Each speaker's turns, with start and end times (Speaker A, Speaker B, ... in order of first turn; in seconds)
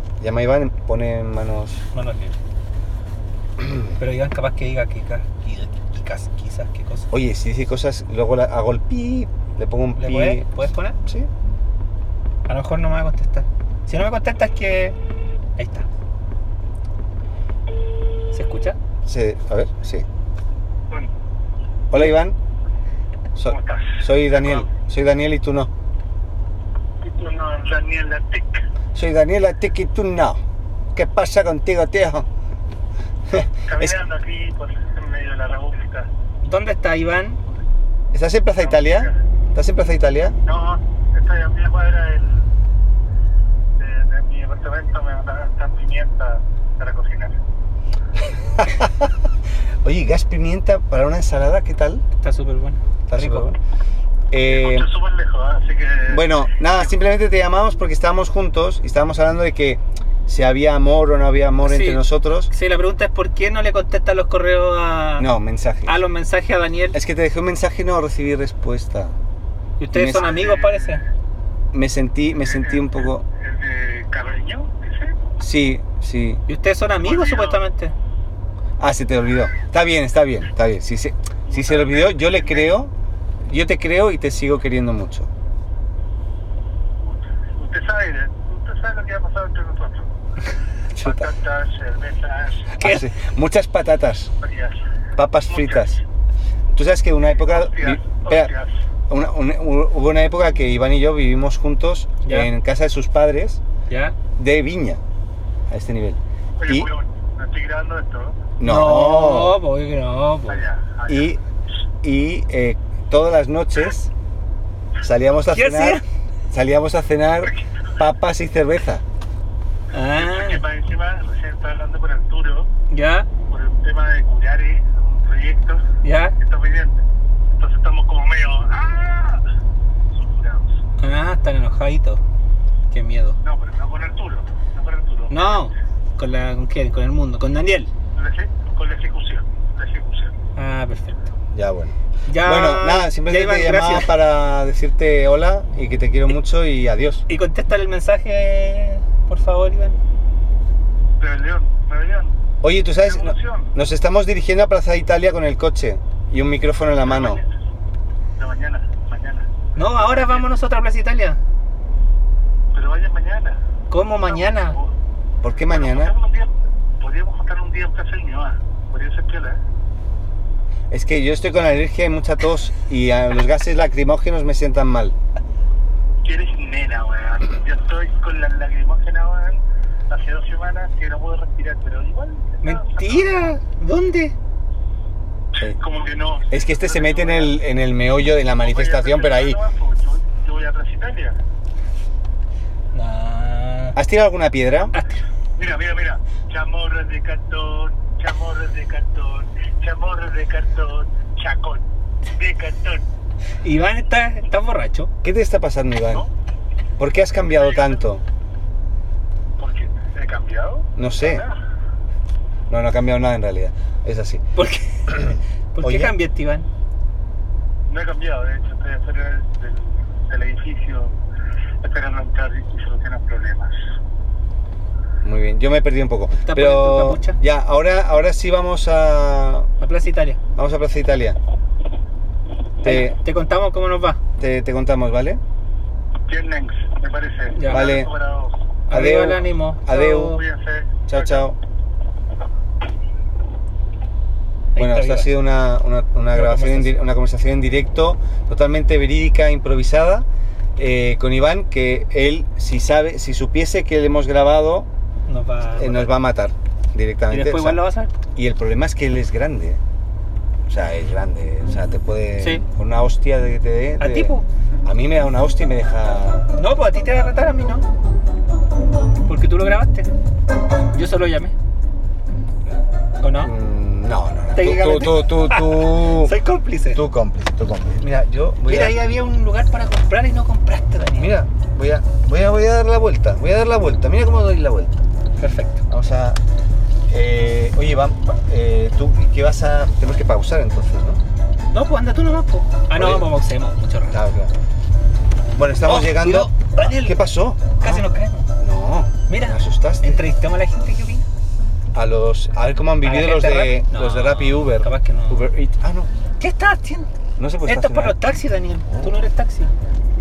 Speaker A: 0.2-1.8, 3.6-3.9, 7.1-10.5, 19.1-20.1, 21.9-22.4, 23.4-25.7, 28.9-30.4, 30.9-32.3, 33.3-34.0, 38.1-40.4, 48.4-49.1, 49.8-52.0, 53.1-53.6, 54.3-54.9, 56.1-62.5, 65.2-66.0, 66.9-69.2, 69.9-70.3, 71.7-73.2, 75.4-76.4, 78.8-82.9, 83.4-85.3, 91.0-91.3, 92.8-94.3, 95.2-96.0, 96.7-98.5, 99.1-103.6, 104.4-105.0, 105.7-106.9, 108.6-109.6, 111.1-111.4, 112.0-114.1, 115.0-119.0, 141.5-147.2, 152.6-157.4, 165.4-166.1, 170.9-175.2, 186.5-189.6, 193.9-194.9, 205.2-206.2, 207.0-208.2, 211.0-211.5, 212.7-214.4, 215.1-216.2, 225.2-229.7, 230.6-231.4, 232.8-233.2, 234.4-235.4, 237.7-238.1, 238.9-240.4, 241.1-241.6, 244.8-250.3, 250.8-254.9, 255.8-257.8, 258.4-259.8, 260.7-266.5, 273.4-276.4, 276.9-279.0, 281.2-285.0, 285.9-286.4, 287.1-291.2, 292.9-293.3, 294.1-294.5, 295.6-298.1, 298.6-300.2, 301.9-306.1, 307.4-308.2, 308.9-309.2
Speaker B: 1.9-2.4, 4.0-7.1, 10.0-11.0, 12.5-15.0, 15.6-15.9, 18.3-18.8, 36.4-37.4, 52.2-53.5, 61.6-65.3, 65.9-67.0, 69.8-71.0, 76.5-77.9, 92.8-93.1, 102.2-102.5, 103.9-104.2, 108.6-110.6, 115.5-116.0, 119.9-120.6, 122.9-123.3, 126.0-126.4, 131.0-132.2, 132.9-133.4, 135.3-137.9, 140.6-141.3, 142.3-144.1, 147.3-150.0, 159.8-161.4, 163.9-164.8, 182.6-184.3, 192.9-194.0, 203.6-205.1, 214.6-216.7, 226.4-227.4, 229.8-230.4, 232.8-234.2, 237.6-237.9, 238.9-240.4, 244.8-245.3, 246.3-247.0, 255.3-256.1, 257.3-258.1, 264.0-264.5, 266.6-267.9, 269.3-270.1, 270.9-271.5, 273.2-273.5, 274.5-277.0, 278.7-281.4, 285.4-285.8, 291.7-294.2, 295.8-297.2, 297.8-298.5, 299.3-301.2, 303.0-305.5, 306.4-307.1, 307.6-309.7
Speaker C: 23.5-24.7, 27.0-28.6, 33.4-36.1, 38.6-39.2, 40.5-42.5, 43.8-47.4, 54.5-56.4, 70.1-71.0, 72.4-75.2, 77.0-77.6, 81.5-82.7, 87.0-90.1, 91.0-92.7, 94.4-94.8, 95.5-96.0, 97.3-98.7, 106.6-108.5, 110.5-111.3, 120.1-122.7, 123.5-125.8, 126.4-129.4, 130.1-130.8, 133.4-135.7, 138.2-140.3, 151.2-152.3, 153.0-153.7, 157.0-157.5, 158.4-160.5, 162.7-163.6, 164.3-164.9, 165.7-169.6, 176.2-183.4, 185.6-187.6, 188.6-191.4, 195.6-201.8, 202.3-203.0, 207.5-208.0, 209.6-211.6, 217.9-221.1, 221.8-223.7, 236.3-238.6, 240.2-241.4